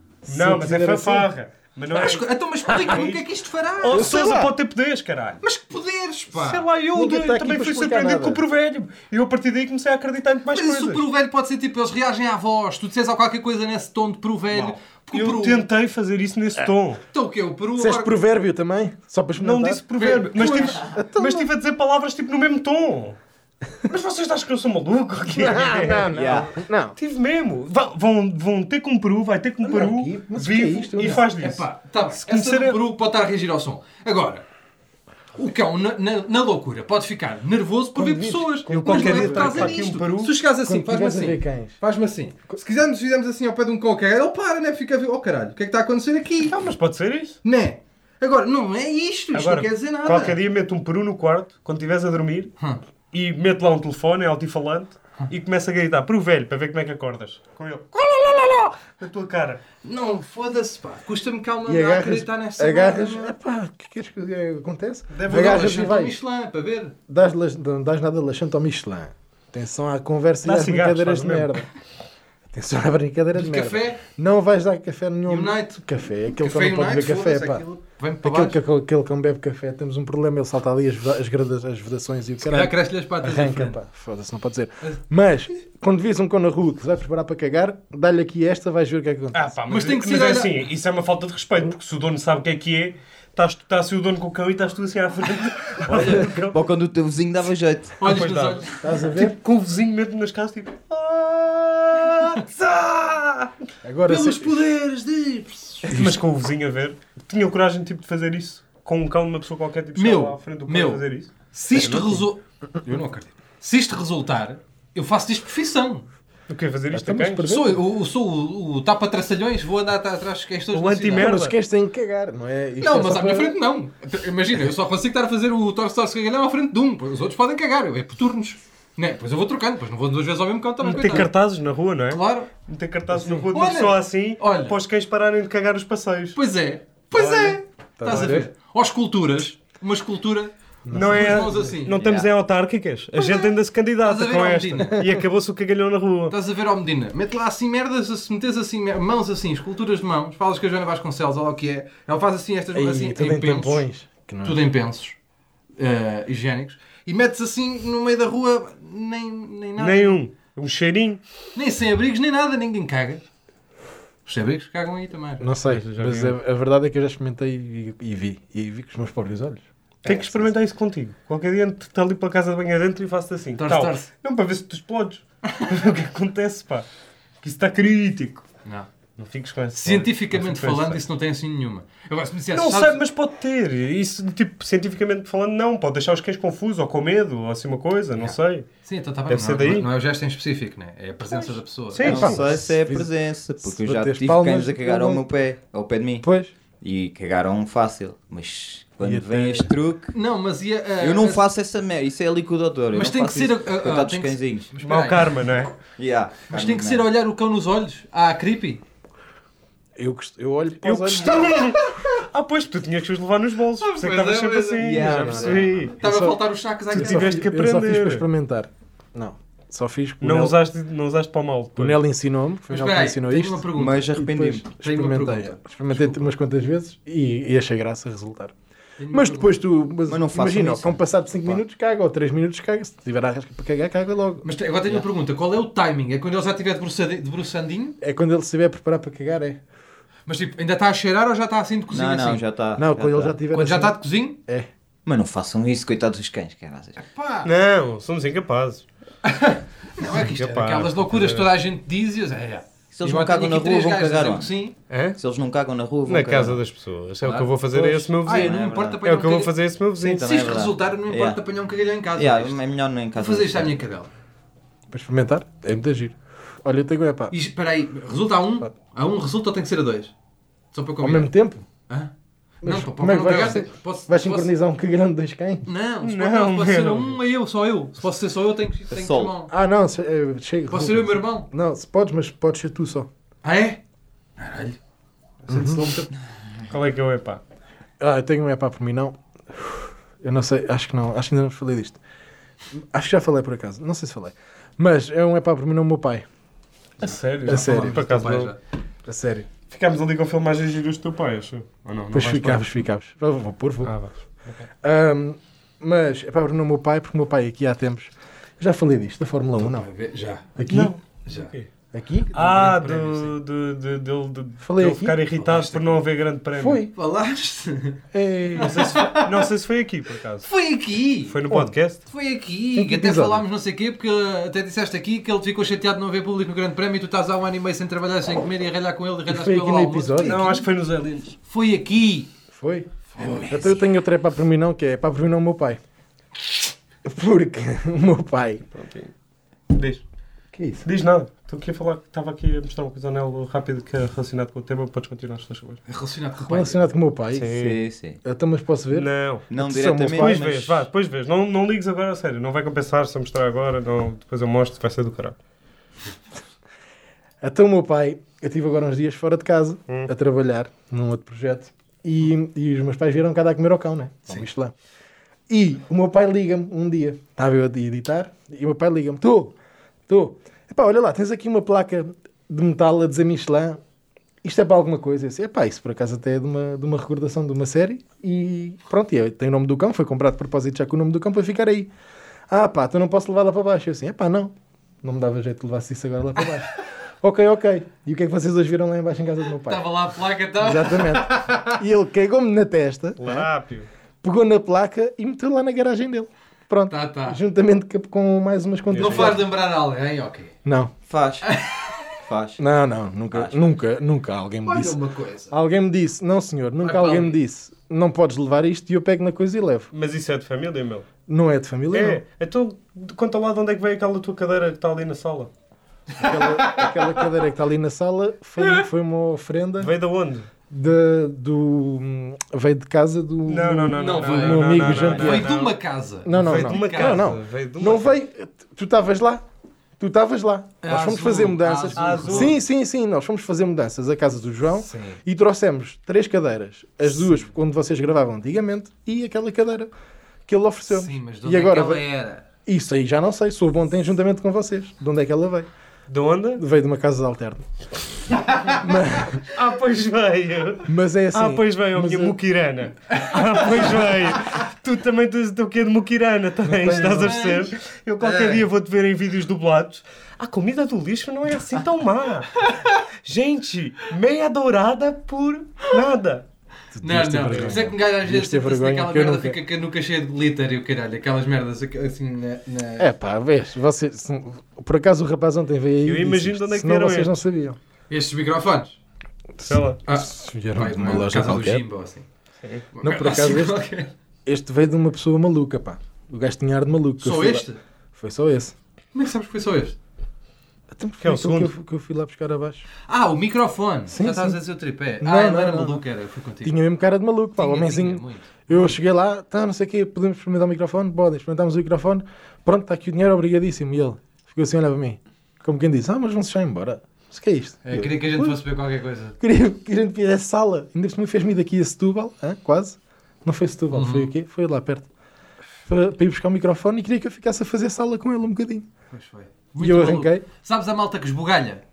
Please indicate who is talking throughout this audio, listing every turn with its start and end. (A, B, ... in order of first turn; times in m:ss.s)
0:00.3-0:01.3 A
0:00.3-0:03.3 B
0:01.9-0:04.2 C
0:03.8-0:05.4 B
0:03.9-0:04.5 A
0:05.4-0:06.6 C
0:06.3-0:11.1 B
0:07.0-0:08.4 A
0:10.5-0:15.7 C
0:14.5-0:17.0 B
0:17.1-0:18.2 C
0:17.8-0:21.5 A
0:19.4-0:23.2 B
0:20.0-0:20.6 C
0:23.8-0:32.8 B
0:25.3-0:27.0 A
0:26.1-0:26.5 D
0:29.6-0:31.2 A
0:31.0-0:34.5 C
0:35.4-0:46.6 C
0:38.0-0:39.8 A
0:38.7-0:40.4 B
0:40.6-0:41.8 A
0:46.5-0:47.4 B
0:47.4-0:50.4 C
0:49.3-0:52.6 B
0:53.1-0:59.6 B
0:59.8-1:03.3 C
1:01.7-1:06.2 A
1:05.1-1:05.9 B
1:05.3-1:07.0 C
1:07.1-1:11.7 A
1:10.4-1:11.6 B
1:12.5-1:17.6 A
1:13.3-1:14.0 C
1:15.3-1:15.8 C
1:16.3-1:18.6 C
1:18.2-1:29.6 A
1:22.4-1:23.8 C
1:29.3-1:36.7 B
1:29.7-1:30.6 C
1:35.9-1:38.0 D
1:38.0-1:39.0 C
1:38.0-1:43.5 B
1:38.8-1:39.4 A
1:43.8-1:44.6 A
1:44.1-1:45.8 C
1:45.8-1:51.3 B
1:45.9-1:46.2 A
1:50.0-1:56.1 C
1:51.8-1:52.2 A
1:56.5-1:57.5 B
1:56.9-1:57.8 A
1:57.5-2:01.3 C
2:00.7-2:01.6 B
2:01.2-2:03.6 A
2:02.8-2:11.3 C
2:10.8-2:16.4 B
2:12.1-2:12.5 C
2:13.5-2:14.8 C
2:16.4-2:22.0 C
2:17.1-2:18.4 B
2:18.0-2:18.5 A
2:20.8-2:21.8 A
2:20.9-2:26.4 B
2:21.9-2:22.3 D
2:23.2-2:23.5 C
2:24.0-2:25.0 C
2:26.3-2:33.9 C
2:32.8-2:34.6 A
2:34.4-2:35.2 C
2:35.8-2:40.2 C
2:39.8-2:41.2 B
2:41.6-2:43.2 C
2:44.3-2:45.5 C
2:45.4-2:50.5 A
2:45.7-2:46.4 B
2:50.0-2:56.9 B
2:53.6-2:54.1 C
2:57.4-2:58.4 B
2:59.2-3:01.0 B
2:59.8-3:03.0 C
3:02.5-3:08.7 B
3:08.2-3:12.4 C
3:09.3-3:09.9 B
3:11.3-3:12.5 B
3:12.0-3:16.3 D
3:12.1-3:15.3 A
3:16.2-3:16.5 A
3:16.8-3:20.1 D
3:19.0-3:19.7 A
3:20.1-3:21.4 C
3:21.0-3:24.7 D
3:22.9-3:25.4 C
3:24.8-3:25.7 B
3:26.0-3:27.1 D
3:26.5-3:28.8 C
3:30.0-3:31.8 A
3:30.8-3:36.0 B
3:33.8-3:37.4 C
3:34.8-3:35.9 D
3:36.0-3:40.6 A
3:36.9-3:38.2 B
3:40.2-3:42.0 B
3:41.8-3:48.5 A
3:42.7-3:44.2 C
3:43.7-3:44.7 D
3:44.8-3:46.3 C
3:49.0-3:49.6 C
3:49.1-3:54.4 A
3:50.0-3:51.6 D
3:54.4-3:58.0 C
3:58.0-3:59.6 A
4:00.3-4:02.4 C
4:01.9-4:03.4 D
4:02.8-4:04.7 A
4:03.5-4:04.4 C
4:05.1-4:07.0 D
4:07.0-4:07.5 C
4:07.4-4:08.8 B
4:09.2-4:14.8 C
4:10.0-4:11.5 B
4:12.9-4:14.5 D
4:14.9-4:15.2 B
4:15.2-4:16.6 D
4:16.1-4:20.5 B
4:17.2-4:17.5 C
4:17.8-4:19.0 D
4:18.2-4:19.5 C
4:20.0-4:21.4 D
4:20.2-4:22.6 C
4:22.2-4:23.8 D
4:23.2-4:24.1 C
4:24.9-4:27.3 A
4:27.3-4:30.1 C
4:30.7-4:31.3 C
4:31.0-4:31.7 A
4:32.6-4:34.5 C
4:32.6-4:35.7 A
4:35.7-4:39.5 C
4:36.0-4:37.2 B
4:38.9-4:39.4 D
4:39.5-4:43.1 A
4:40.7-4:41.5 C
4:43.4-4:43.8 C
4:44.4-4:44.8 C
4:45.5-4:45.8 A
4:45.5-4:46.1 B
4:45.5-4:46.1 C
4:46.7-4:47.4 B
4:48.0-4:52.0 A
4:52.7-4:56.2 A
4:57.0-4:58.5 B
4:57.0-4:58.6 C
4:57.5-4:58.0 A
4:59.0-4:59.5 A
4:59.7-5:02.7 B
5:02.1-5:04.0 A
5:03.8-5:04.1 B
5:04.8-5:09.9 A
5:09.6-5:10.5 C
5:10.6-5:11.0 A
5:10.7-5:11.7 B
5:11.3-5:11.5 C
5:11.9-5:12.4 A
5:12.3-5:13.3 C
5:12.3-5:16.8 B
5:14.6-5:15.2 A
5:15.4-5:16.0 C
5:16.6-5:16.9 A
5:16.9-5:18.0 C
5:18.1-5:18.9 A
5:18.6-5:19.4 C
5:18.6-5:20.5 B
5:20.4-5:21.4 C
5:21.3-5:22.0 B
5:22.1-5:30.6 C
5:22.8-5:23.4 A
5:29.3-5:30.5 A
5:30.2-5:31.4 B
5:31.4-5:32.3 C
5:32.5-5:35.8 A
5:33.1-5:33.8 C
5:37.0-5:38.7 A
5:38.7-5:39.1 B
5:39.7-5:40.0 B
5:40.5-5:40.9 A
5:40.8-5:45.8 B
5:45.9-5:46.9 C
5:46.4-5:47.6 A
5:47.3-5:47.8 B
5:47.5-5:48.2 D
5:48.2-5:50.5 A
5:48.9-5:55.4 B
5:49.5-5:50.9 D
5:57.4-6:04.7 A
6:05.5-6:09.6 A
6:10.1-6:13.8 A
6:14.4-6:21.9 A
6:22.5-6:29.9 A
6:29.6-6:31.8 C
6:30.6-6:33.5 A
6:33.2-6:33.9 B
6:34.2-6:39.5 A
6:36.9-6:37.4 C
6:38.9-6:39.4 B
6:38.9-6:40.6 C
6:40.6-6:40.9 A
6:41.1-6:41.5 D
6:41.4-6:42.1 C
6:42.2-6:42.6 D
6:42.6-6:49.9 A
6:43.3-6:43.6 D
6:44.6-6:45.5 C
6:46.8-6:47.4 C
6:49.9-6:51.1 B
6:51.3-6:52.2 A
6:51.9-6:55.5 B
6:56.2-6:59.9 A
6:56.2-6:57.0 C
6:59.8-7:00.5 B
7:00.7-7:05.6 A
7:03.5-7:05.8 B
7:04.0-7:07.3 C
7:06.2-7:09.4 A
7:06.4-7:08.1 B
7:10.0-7:19.9 A
7:10.8-7:12.6 C
7:11.9-7:12.6 B
7:14.8-7:15.2 C
7:20.5-7:22.0 A
7:20.9-7:22.4 C
7:22.7-7:25.7 A
7:26.1-7:26.6 B
7:26.6-7:28.2 A
7:28.7-7:29.5 A
7:29.5-7:46.4 B
7:30.9-7:32.4 A
7:33.1-7:33.6 C
7:36.6-7:37.6 A
7:36.9-7:38.6 C
7:47.0-7:49.6 A
7:47.0-7:53.1 C
7:47.5-7:47.8 B
7:53.0-7:57.8 A
7:56.0-7:57.4 B
7:58.1-7:59.0 C
7:59.6-8:00.0 B
7:59.7-8:01.8 A
8:00.1-8:02.3 C
8:02.9-8:04.1 C
8:03.0-8:03.8 A
8:04.5-8:08.8 A
8:07.2-8:07.8 C
8:09.1-8:10.0 C
8:10.9-8:12.9 A
8:11.2-8:11.7 B
8:13.1-8:16.8 C
8:14.1-8:14.6 A
8:15.2-8:16.0 A
8:16.6-8:28.6 A
8:17.6-8:19.0 C
8:27.8-8:29.4 C
8:29.4-8:35.1 A
8:33.9-8:34.3 C
8:35.9-8:38.9 A
8:39.1-8:41.8 C
8:39.8-8:40.4 A